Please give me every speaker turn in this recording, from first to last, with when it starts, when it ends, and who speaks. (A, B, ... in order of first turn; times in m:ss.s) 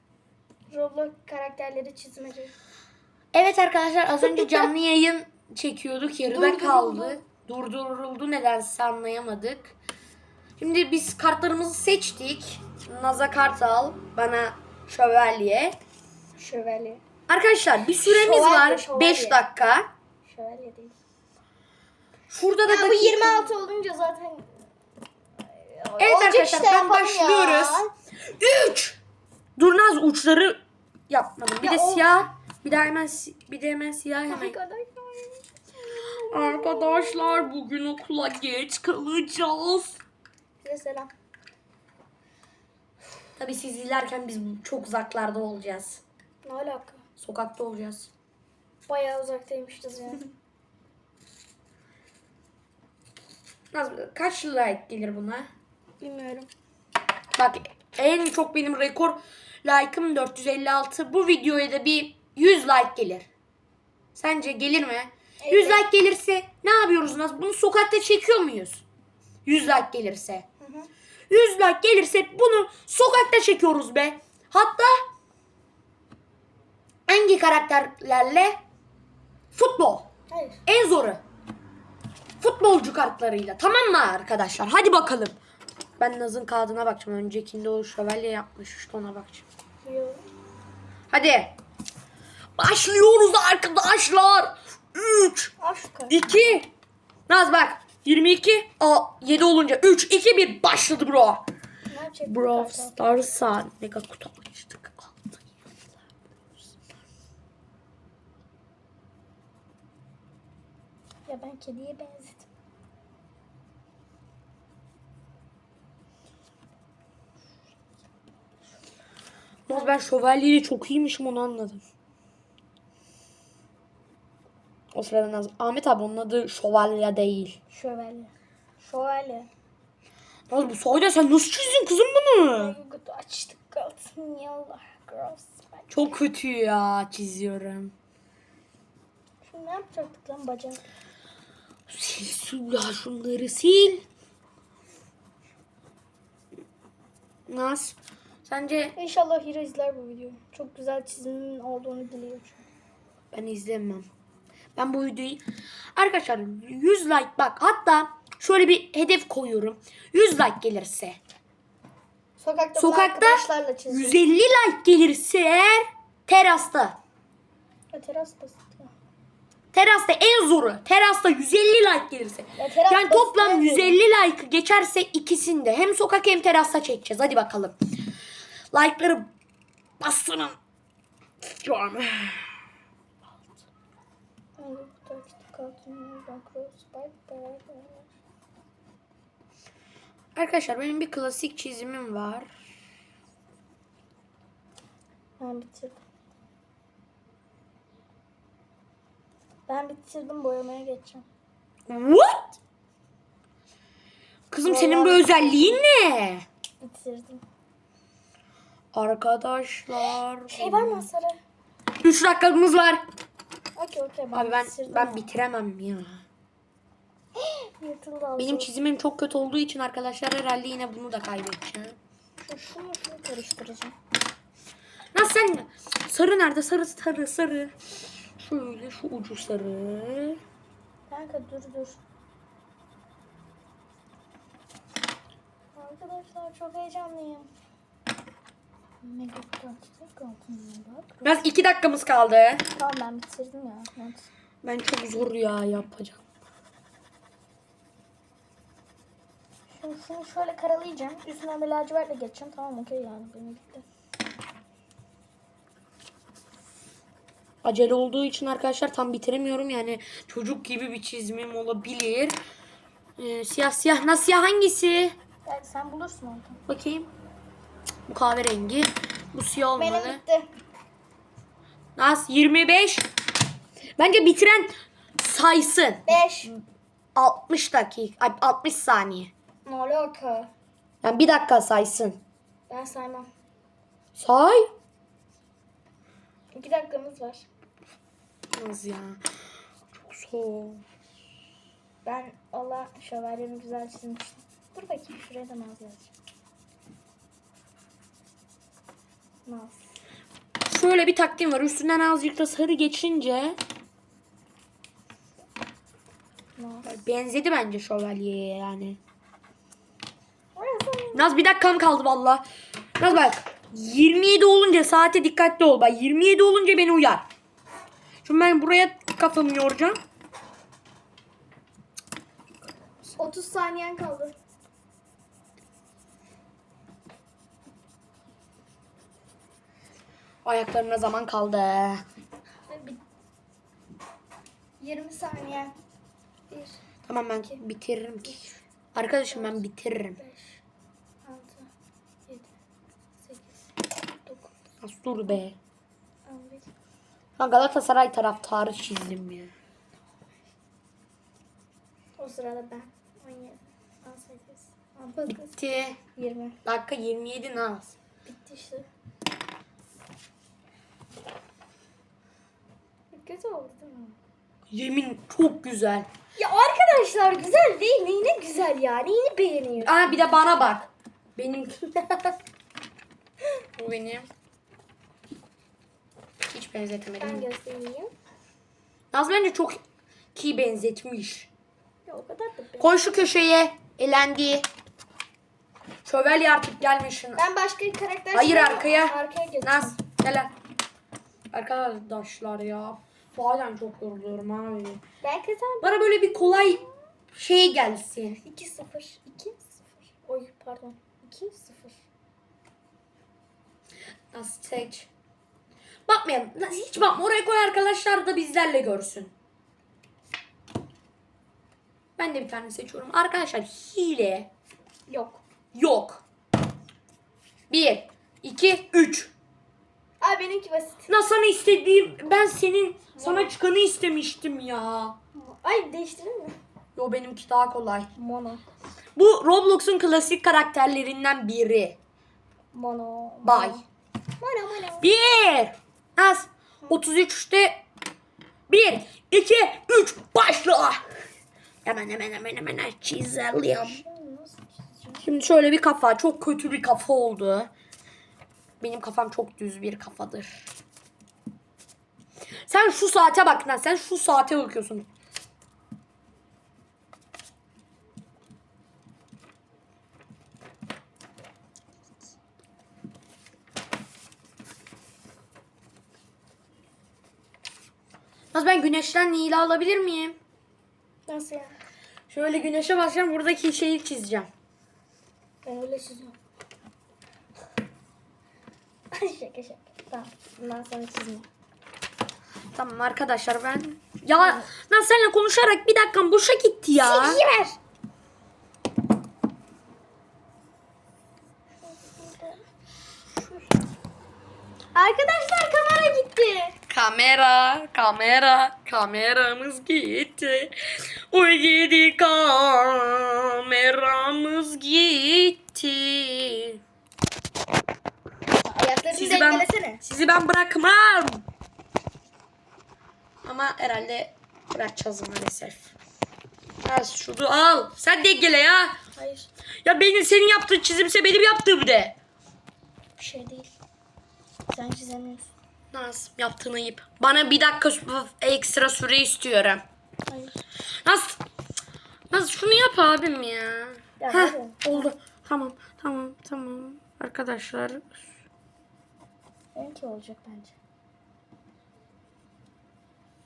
0:00.7-0:02.6 A
0:03.3-0:09.8 B
0:04.2-0:04.7 A
0:06.3-0:07.2 A
0:10.6-0:15.8 B
0:16.4-0:17.0 A
0:17.3-0:19.9 B
0:18.0-0:19.4 A
0:20.2-0:21.0 A
0:22.3-0:23.5 B
0:22.6-0:24.6 A
0:25.5-0:27.9 A
0:26.0-0:29.0 B
0:29.6-0:34.6 B
0:31.6-0:32.1 A
0:34.3-0:37.5 A
0:36.3-0:40.0 B
0:40.6-0:41.1 A
0:43.4-0:46.0 B
0:46.4-0:47.0 A
0:47.2-0:48.1 B
0:48.9-0:50.3 A
0:53.7-0:55.5 B
0:56.0-0:56.5 A
0:57.4-1:03.3 B
1:04.2-1:08.8 B
1:05.4-1:05.8 A
1:09.4-1:10.5 B
1:10.6-1:10.9 A
1:11.3-1:14.9 B
1:17.1-1:18.6 B
1:19.5-1:20.1 B
1:20.3-1:20.6 A
1:20.7-1:21.2 B
1:22.4-1:25.4 B
1:26.0-1:29.5 B
1:29.8-1:30.2 A
1:31.1-1:31.5 B
1:32.6-1:35.5 B
1:35.6-1:36.6 A
1:36.1-1:36.7 B
1:37.3-1:41.4 B
1:41.9-1:43.2 A
1:42.3-1:45.7 B
1:51.3-1:52.5 A
1:59.7-2:01.8 B
2:04.9-2:07.6 B
2:07.7-2:09.5 A
2:10.5-2:12.8 B
2:12.6-2:15.9 A
2:15.9-2:17.9 B
2:19.4-2:20.8 A
2:21.9-2:24.1 B
2:27.5-2:29.0 B
2:29.0-2:32.7 A
2:33.3-2:34.1 B
2:34.8-2:35.4 B
2:36.0-2:41.2 B
2:42.4-2:44.2 A
2:42.8-2:47.0 B
2:47.9-2:48.9 A
2:49.7-2:57.8 B
2:52.6-2:54.0 A
2:58.7-2:59.3 B
3:00.0-3:00.6 B
3:01.4-3:02.5 B
3:04.6-3:08.1 A
3:10.4-3:12.5 B
3:15.4-3:16.0 A
3:19.7-3:21.2 A
3:21.9-3:22.6 B
3:24.5-3:26.4 B
3:24.6-3:25.8 A
3:26.8-3:27.4 A
3:28.9-3:31.1 B
3:30.5-3:31.4 A
3:32.0-3:33.0 B
3:33.8-3:35.3 A
3:34.3-3:36.2 B
3:37.4-3:38.7 A
3:38.4-3:42.0 B
3:42.4-3:44.0 A
3:45.1-3:47.8 B
3:48.4-3:50.4 B
3:51.1-3:52.0 A
3:55.8-3:57.5 A
3:59.0-4:01.2 A
4:01.2-4:02.7 B
4:02.8-4:04.3 A
4:04.6-4:06.2 B
4:09.7-4:13.8 A
4:17.6-4:22.4 B
4:23.2-4:25.2 B
4:25.4-4:26.6 A
4:26.7-4:27.1 B
4:28.1-4:30.2 B
4:29.8-4:30.5 A
4:32.0-4:33.1 B
4:34.0-4:36.6 B
4:36.1-4:36.5 A
4:37.2-4:39.3 B
4:39.6-4:40.5 A
4:41.0-4:42.2 B
4:42.7-4:43.3 A
4:44.2-4:44.7 B
4:46.5-4:47.5 A
4:48.6-4:49.2 B
4:50.0-4:50.8 B
4:52.0-4:56.1 A
4:59.5-4:59.9 A
5:00.7-5:03.6 B
5:06.6-5:06.9 A
5:06.8-5:09.0 B
5:10.6-5:11.3 A
5:11.1-5:12.4 B
5:13.0-5:17.3 B
5:18.2-5:20.0 B
5:23.2-5:24.4 A
5:30.4-5:32.0 B
5:32.7-5:33.0 A
5:34.8-5:35.8 A
5:36.5-5:36.8 A
5:37.1-5:40.2 B
5:37.3-5:37.6 A
5:38.2-5:38.6 A
5:39.3-5:39.6 A
5:40.2-5:40.6 A
5:41.2-5:41.7 A
5:43.2-5:43.5 A
5:44.2-5:44.6 A
5:44.8-5:45.6 B
5:46.3-5:46.7 A
5:47.4-5:49.5 B
5:52.2-5:55.6 A
5:55.3-5:56.0 B
5:56.2-5:56.6 A
5:56.6-5:57.9 B
5:58.2-5:58.9 A
6:03.1-6:04.2 A
6:04.7-6:06.1 B
6:06.4-6:10.2 A
6:09.8-6:12.4 B
6:13.8-6:14.3 B
6:16.5-6:17.5 B
6:17.2-6:18.1 A
6:19.1-6:19.8 B
6:20.4-6:21.5 B
6:22.1-6:23.1 A
6:22.8-6:24.7 B
6:26.0-6:27.4 B
6:27.4-6:30.0 A
6:28.3-6:30.5 B
6:31.5-6:35.0 B
6:35.2-6:36.9 A
6:35.8-6:36.8 B
6:37.3-6:38.4 B
6:38.4-6:42.0 A
6:44.3-6:45.1 B
6:46.1-6:49.3 B
6:52.2-6:54.5 B
6:55.1-6:55.4 A
6:55.7-6:56.2 B
6:57.7-6:59.3 B
7:00.2-7:01.1 A
7:01.1-7:05.2 B
7:03.2-7:03.5 A
7:05.3-7:06.6 A
7:07.0-7:08.1 B
7:08.2-7:08.6 A
7:09.2-7:12.0 B
7:12.7-7:13.8 A
7:13.4-7:13.8 B
7:14.4-7:15.1 A
7:15.0-7:17.8 B
7:18.7-7:21.0 B
7:21.8-7:24.0 B
7:23.8-7:25.3 A
7:25.2-7:27.7 B
7:28.8-7:30.7 B
7:32.7-7:35.1 B
7:48.5-7:50.4 B
7:51.3-7:51.7 A
7:52.3-7:54.5 B
7:55.6-7:56.4 A
7:59.1-8:01.5 A
8:02.7-8:07.4 B
8:04.4-8:04.7 A
8:07.0-8:07.8 A
8:11.8-8:12.6 A
8:15.0-8:16.8 A
8:16.9-8:20.7 B
8:21.3-8:26.8 B
8:28.7-8:30.0 A
8:29.1-8:31.4 B
8:33.4-8:35.9 B
8:36.8-8:39.0 B
8:39.2-8:39.5 A
8:39.8-8:42.2 B
8:43.2-8:43.7 A
8:44.7-8:45.5 A
8:45.9-8:49.8 B
8:50.3-8:50.6 A
8:51.0-8:51.4 B
8:52.3-8:58.2 B
8:54.2-8:55.1 A
8:59.8-9:00.8 A